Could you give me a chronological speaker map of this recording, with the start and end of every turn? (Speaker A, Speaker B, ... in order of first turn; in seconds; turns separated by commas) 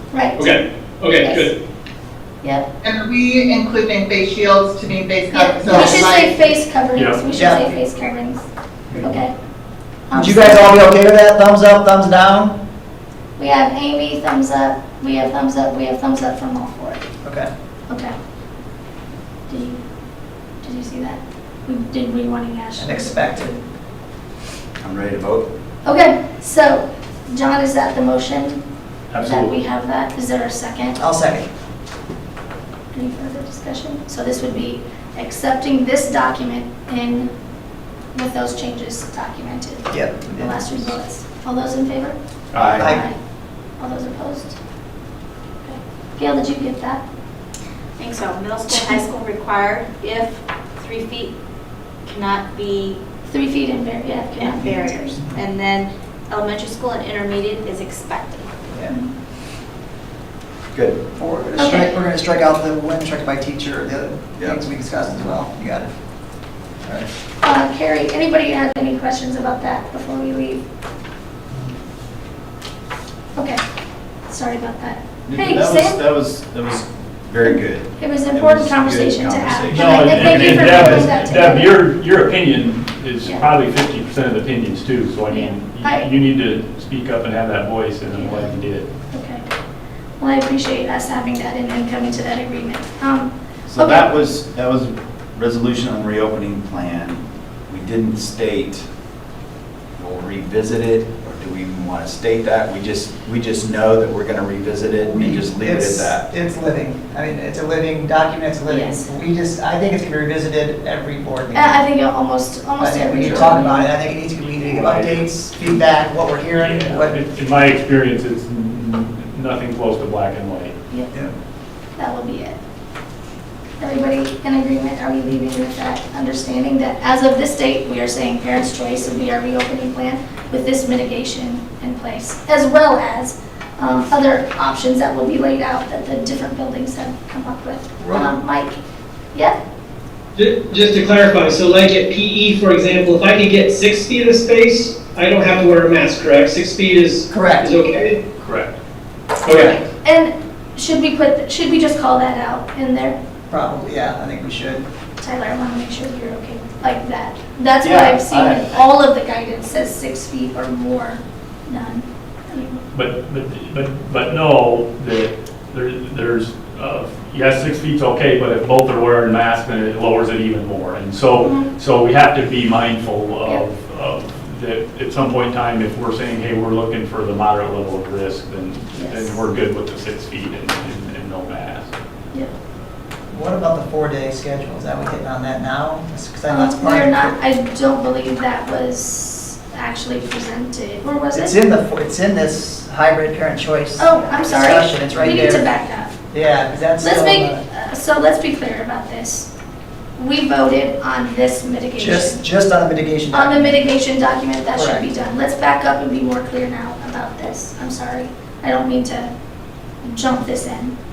Speaker A: 0.1-0.4, Speaker B: 0.4-1.5, Speaker A: 1.2-1.5, Speaker C: 2.8-6.6, Speaker A: 5.3-8.4, Speaker D: 7.0-7.2, Speaker E: 7.3-7.7, Speaker A: 9.0-9.3, Speaker A: 10.1-10.8, Speaker E: 10.1-12.6, Speaker A: 13.4-17.0, Speaker E: 17.2-17.5, Speaker A: 17.9-18.1, Speaker A: 19.5-19.8, Speaker A: 20.6-23.6, Speaker E: 22.8-23.5, Speaker F: 24.8-25.5, Speaker A: 25.9-28.6, Speaker D: 29.1-29.5, Speaker A: 29.2-31.0, Speaker E: 31.0-31.5, Speaker A: 32.9-37.3, Speaker A: 38.1-42.2, Speaker E: 39.9-40.9, Speaker D: 42.5-42.9, Speaker F: 42.6-42.9, Speaker E: 42.7-43.0, Speaker A: 42.7-43.2, Speaker A: 43.8-44.6, Speaker A: 45.6-47.0, Speaker G: 48.0-51.3, Speaker A: 48.7-49.0, Speaker G: 52.0-53.0, Speaker A: 53.3-55.2, Speaker G: 54.4-58.5, Speaker F: 60.7-61.0, Speaker E: 61.2-65.9, Speaker A: 61.6-62.0, Speaker A: 67.4-70.6, Speaker A: 73.3-73.6, Speaker A: 74.3-76.0, Speaker F: 75.3-81.2, Speaker A: 77.5-81.7, Speaker D: 79.7-88.9, Speaker A: 85.3-86.1, Speaker A: 88.2-88.4, Speaker A: 89.1-89.4, Speaker A: 90.2-94.1, Speaker F: 93.7-98.9, Speaker F: 100.0-106.3, Speaker E: 105.0-111.8, Speaker G: 108.7-109.0, Speaker A: 111.5-113.8, Speaker E: 112.8-117.2, Speaker D: 113.2-113.5, Speaker D: 114.4-115.4, Speaker D: 116.6-120.8, Speaker A: 122.0-122.6, Speaker A: 123.8-138.8, Speaker E: 138.0-138.3, Speaker B: 140.3-148.2, Speaker E: 147.3-147.7, Speaker D: 148.4-148.7, Speaker B: 149.4-149.8, Speaker A: 150.0-153.2, Speaker E: 153.5-154.8, Speaker A: 155.2-162.8, Speaker F: 157.8-158.7, Speaker D: 162.9-181.9, Speaker A: 171.4-171.7, Speaker A: 179.0-179.4, Speaker E: 183.3-187.3, Speaker A: 186.5-191.6, Speaker E: 191.3-195.7, Speaker A: 194.0-196.1, Speaker E: 196.3-197.6, Speaker A: 197.0-199.5, Speaker A: 200.2-202.4, Speaker E: 202.0-203.8, Speaker A: 203.3-209.3, Speaker E: 204.8-205.1, Speaker A: 210.1-210.9